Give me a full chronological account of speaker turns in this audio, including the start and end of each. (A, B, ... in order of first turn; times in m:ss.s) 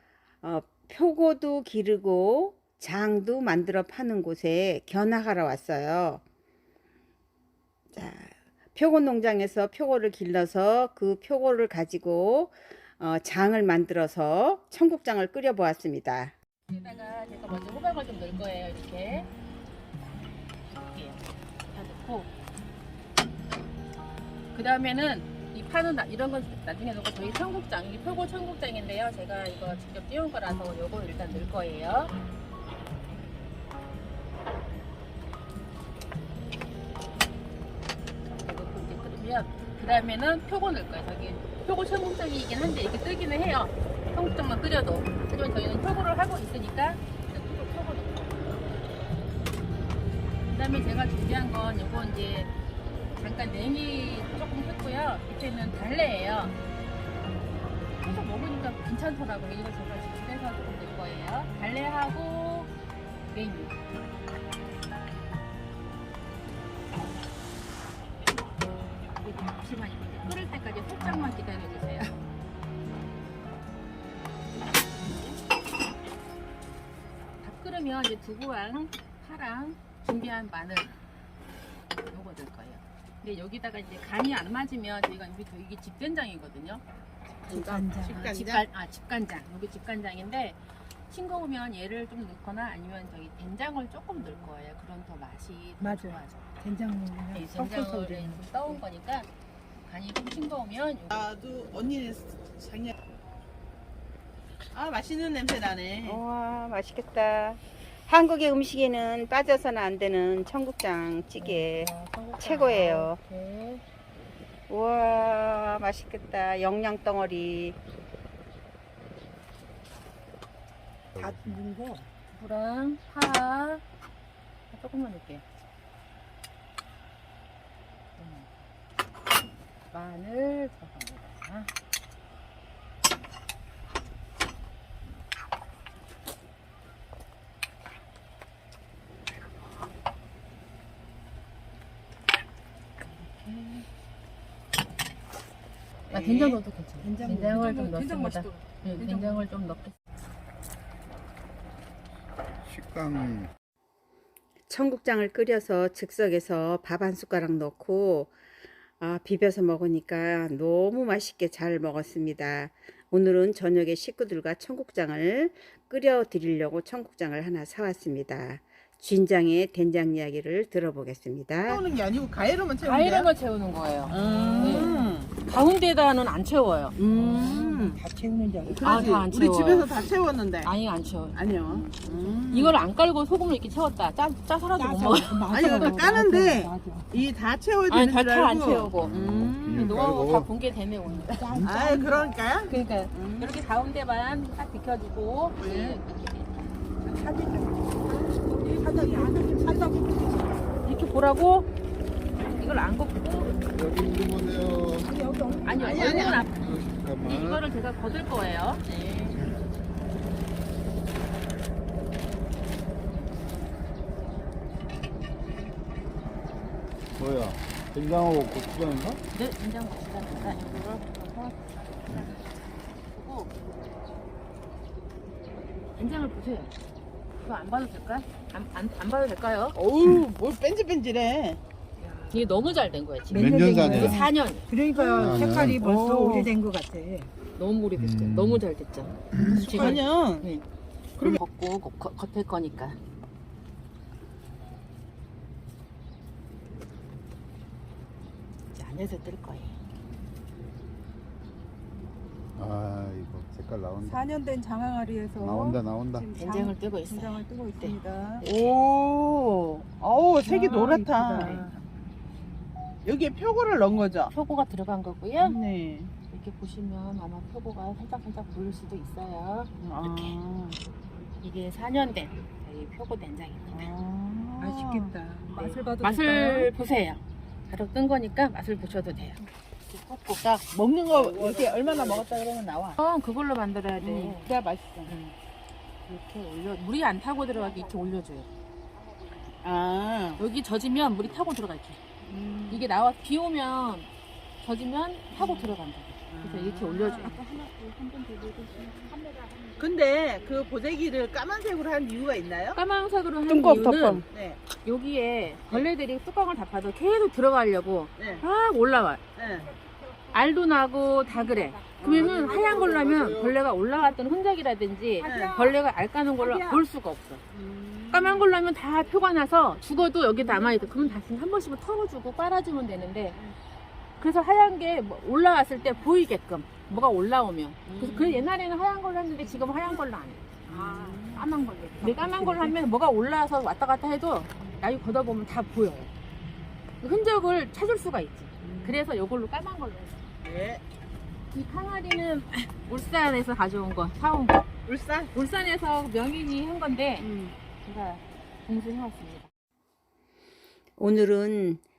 0:00.4-0:06.2 A
0:07.9-0:16.3 A
0:16.7-0:19.3 B
0:20.7-0:22.3 B
0:24.5-0:32.1 B
0:38.4-0:48.7 B
0:50.4-0:52.5 B
0:53.2-0:56.6 B
0:58.0-1:02.7 B
1:03.3-1:03.7 B
1:09.2-1:12.1 B
1:17.4-1:20.9 B
1:22.1-1:26.8 B
1:27.5-1:36.5 B
1:27.5-1:28.6 C
1:27.5-1:28.3 D
1:35.8-1:38.8 D
1:37.3-1:39.3 B
1:39.8-1:41.3 B
1:41.1-1:42.9 C
1:44.7-1:46.2 C
1:46.0-1:53.2 A
1:51.4-1:53.8 B
1:54.7-1:57.8 A
2:01.1-2:01.6 E
2:01.2-2:02.1 D
2:02.3-2:03.8 B
2:04.7-2:05.4 B
2:08.2-2:08.5 B
2:09.9-2:11.7 B
2:23.0-2:23.9 B
2:26.1-2:29.9 B
2:26.1-2:26.6 C
2:27.0-2:29.5 D
2:32.6-2:33.5 E
2:34.7-2:38.3 A
2:39.0-2:51.8 A
2:51.6-2:53.3 C
2:52.8-2:57.6 B
2:54.1-2:55.3 C
2:54.6-2:55.0 D
2:57.0-2:58.0 C
2:57.1-2:59.2 D
2:58.7-3:00.7 C
2:58.8-2:59.9 B
3:00.6-3:01.4 B
3:01.3-3:02.8 C
3:02.0-3:06.1 B
3:04.8-3:07.1 D
3:05.5-3:10.0 C
3:07.9-3:09.1 B
3:09.0-3:10.5 E
3:09.7-3:11.4 B
3:11.3-3:12.3 D
3:11.4-3:11.7 E
3:11.6-3:13.6 C
3:12.6-3:16.7 B
3:15.6-3:16.0 C
3:17.0-3:20.6 D
3:20.8-3:21.7 B
3:22.5-3:23.6 B
3:23.7-3:25.2 E
3:25.0-3:26.4 D
3:25.6-3:28.9 B
3:25.8-3:26.4 C
3:26.3-3:27.6 E
3:28.9-3:29.4 C
3:37.2-3:39.2 E
3:39.3-3:43.5 B
3:46.0-3:46.8 B
3:47.4-3:49.8 B
3:49.7-3:51.6 C
3:52.0-3:52.4 D
3:52.3-3:54.7 B
3:53.3-3:54.3 E
3:53.3-3:57.3 D
3:54.9-3:56.5 C
3:55.1-3:55.8 E
3:57.5-4:00.6 B
3:58.0-3:58.6 E
3:59.3-3:59.7 E
3:59.6-4:00.0 D
3:59.7-4:00.5 C
4:01.2-4:03.0 B
4:08.7-4:09.7 B
4:12.6-4:14.2 E
4:14.0-4:18.4 D
4:15.4-4:16.3 E
4:16.4-4:18.0 B
4:18.4-4:21.6 C
4:20.4-4:21.8 D
4:23.0-4:24.3 C
4:24.3-4:25.6 B
4:25.4-4:26.1 C
4:26.3-4:30.3 B
4:29.8-4:30.8 C
4:31.4-4:33.9 B
4:33.7-4:35.1 C
4:34.6-4:36.7 D
4:35.6-4:40.4 B
4:40.4-4:43.0 C
4:41.2-4:42.3 D
4:42.9-4:44.4 B
4:44.0-4:45.0 C
4:44.5-4:45.1 D
4:45.0-4:45.3 B
4:46.1-4:48.5 B
4:47.6-4:47.9 D
4:49.0-4:49.4 D
4:49.6-4:50.4 C
4:50.4-4:52.0 B
4:52.2-4:52.8 C
4:52.7-4:54.1 B
4:54.6-4:58.2 B
4:55.3-4:55.8 C
4:56.3-4:57.4 C
4:57.6-4:59.8 D
4:59.8-5:02.8 C
5:02.7-5:09.2 B
5:03.8-5:04.2 D
5:04.2-5:04.6 C
5:09.4-5:09.7 C
5:10.3-5:17.4 B
5:11.3-5:13.1 D
5:12.0-5:13.0 C
5:12.5-5:13.6 E
5:15.2-5:15.7 D
5:15.2-5:15.7 C
5:16.4-5:16.8 D
5:17.5-5:18.5 C
5:18.1-5:23.4 B
5:20.8-5:21.1 D
5:24.2-5:36.1 B
5:27.9-5:28.5 C
5:30.7-5:31.4 C
5:32.0-5:32.7 D
5:37.0-5:40.2 B
5:38.6-5:39.0 C
5:40.4-5:40.8 C
5:41.5-5:44.7 B
5:44.8-5:45.3 C
5:45.3-5:47.3 B
5:47.2-5:47.5 C
5:47.8-5:49.5 B
5:51.0-5:51.8 A